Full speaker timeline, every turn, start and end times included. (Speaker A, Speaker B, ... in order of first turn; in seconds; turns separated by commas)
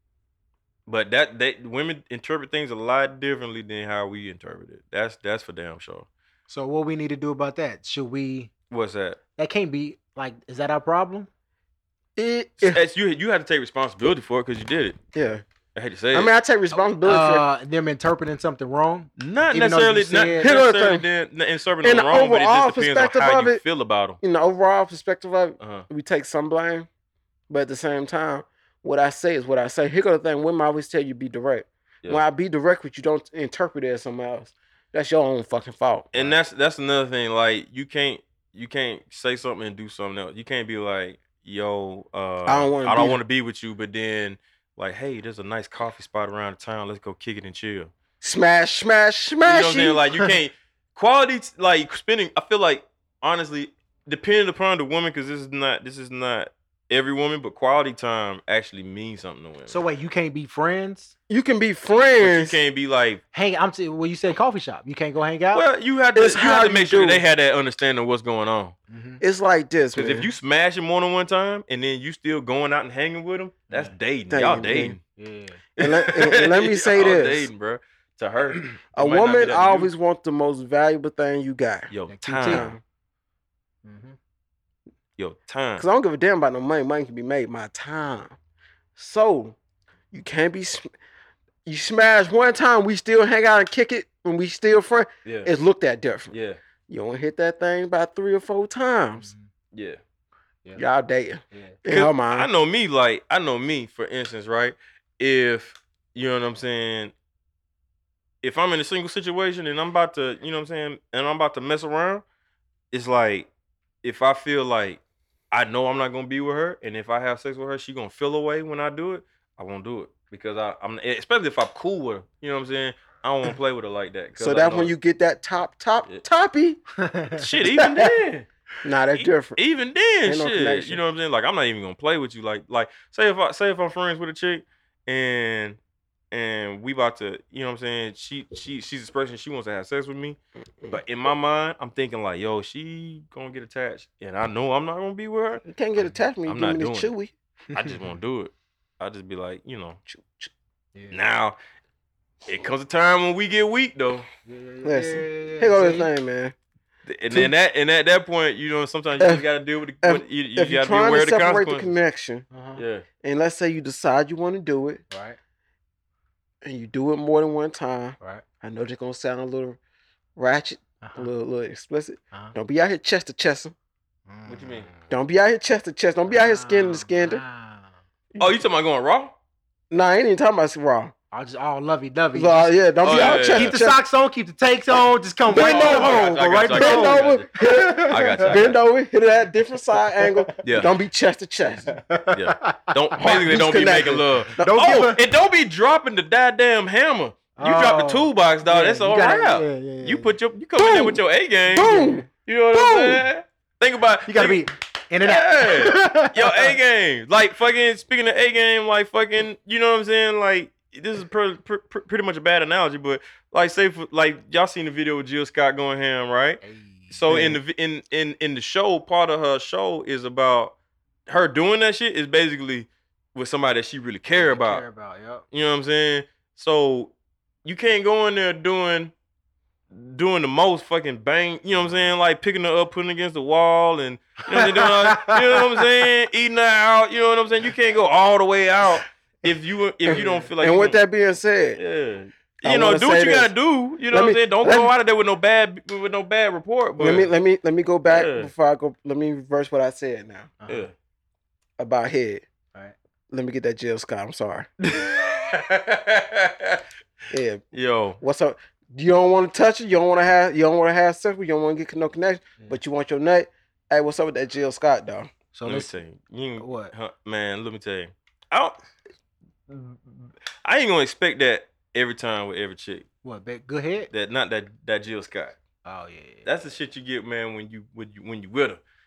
Speaker A: 0.9-6.1, Speaker B: 6.5-8.5, Speaker A: 8.7-9.2, Speaker B: 9.4-11.3, Speaker C: 12.2-12.8, Speaker A: 12.6-15.0, Speaker C: 15.1-15.4, Speaker A: 15.7-16.3, Speaker C: 16.1-17.4, Speaker B: 17.0-20.5, Speaker A: 19.2-24.2, Speaker C: 20.4-21.1, Speaker C: 21.8-23.6, Speaker C: 24.2-26.9, Speaker A: 25.6-25.9, Speaker C: 27.5-36.4, Speaker A: 36.1-47.9, Speaker C: 42.5-43.2, Speaker C: 48.2-50.0, Speaker A: 49.4-59.8, Speaker B: 59.7-61.1, Speaker C: 61.3-62.6, Speaker A: 62.2-63.2, Speaker B: 63.3-65.7, Speaker A: 65.5-68.8, Speaker C: 66.2-67.2, Speaker B: 68.9-69.2, Speaker C: 69.2-70.3, Speaker A: 70.0-75.0, Speaker C: 74.3-75.0, Speaker B: 75.2-75.6, Speaker C: 75.8-77.5, Speaker A: 75.8-79.9, Speaker C: 78.9-81.9, Speaker A: 81.9-82.7, Speaker B: 82.1-82.7, Speaker C: 82.4-82.8, Speaker B: 83.8-84.2, Speaker A: 85.2-85.8, Speaker C: 85.8-88.4, Speaker C: 89.0-89.6, Speaker C: 90.1-90.9, Speaker C: 91.7-96.3, Speaker A: 95.2-95.5, Speaker A: 96.3-96.6, Speaker C: 96.9-99.3, Speaker B: 99.2-99.5, Speaker A: 99.7-100.0, Speaker C: 100.8-102.5, Speaker B: 101.5-101.8, Speaker A: 101.9-107.1, Speaker A: 108.4-112.2, Speaker A: 112.9-113.5, Speaker A: 114.0-124.9, Speaker C: 124.4-126.8, Speaker B: 127.0-127.5, Speaker A: 127.4-128.5, Speaker C: 127.7-128.1, Speaker C: 128.8-129.6, Speaker A: 129.2-135.8, Speaker C: 130.2-131.0, Speaker A: 136.3-140.4, Speaker A: 140.9-145.7, Speaker C: 145.7-147.3, Speaker A: 146.4-147.1, Speaker A: 147.7-150.0, Speaker C: 150.1-150.5, Speaker A: 151.1-151.6, Speaker A: 152.4-154.3, Speaker B: 154.4-156.1, Speaker C: 154.8-156.6, Speaker A: 157.1-161.9, Speaker C: 159.2-159.4, Speaker C: 160.0-162.4, Speaker B: 162.5-162.8, Speaker A: 162.8-163.1, Speaker C: 163.2-165.0, Speaker B: 165.1-165.4, Speaker C: 166.6-169.8, Speaker C: 170.4-173.7, Speaker B: 171.0-171.3, Speaker B: 174.3-175.1, Speaker A: 174.4-174.9, Speaker C: 175.1-177.4, Speaker B: 176.3-177.9, Speaker A: 178.4-179.3, Speaker C: 179.9-181.1, Speaker B: 181.3-188.6, Speaker C: 182.3-184.0, Speaker A: 183.0-183.8, Speaker C: 185.5-192.0, Speaker A: 185.5-187.4, Speaker A: 188.1-188.8, Speaker A: 190.6-190.9, Speaker B: 191.9-192.9, Speaker A: 192.3-204.7, Speaker C: 193.2-195.1, Speaker B: 194.6-195.2, Speaker B: 197.6-200.3, Speaker C: 200.8-203.3, Speaker B: 201.8-202.2, Speaker B: 204.3-206.7, Speaker A: 205.2-220.8, Speaker B: 216.6-217.4, Speaker C: 217.3-217.6, Speaker A: 221.3-224.8, Speaker B: 224.3-225.4, Speaker A: 225.5-227.1, Speaker A: 227.7-229.1, Speaker A: 229.9-241.0, Speaker B: 234.5-235.6, Speaker B: 240.2-240.4, Speaker C: 240.6-241.8, Speaker A: 241.8-247.3, Speaker C: 242.6-243.5, Speaker C: 244.1-244.9, Speaker C: 247.0-250.5, Speaker A: 248.1-248.5, Speaker B: 250.6-250.9, Speaker C: 251.8-252.4, Speaker C: 253.3-254.7, Speaker A: 254.8-256.8, Speaker C: 257.3-257.6, Speaker A: 257.7-258.2, Speaker C: 258.2-265.3, Speaker B: 265.5-265.9, Speaker A: 265.6-268.8, Speaker B: 266.6-266.9, Speaker A: 269.7-270.0, Speaker A: 270.6-273.1, Speaker B: 273.2-274.1, Speaker A: 274.1-275.6, Speaker B: 275.9-276.4, Speaker A: 276.4-278.8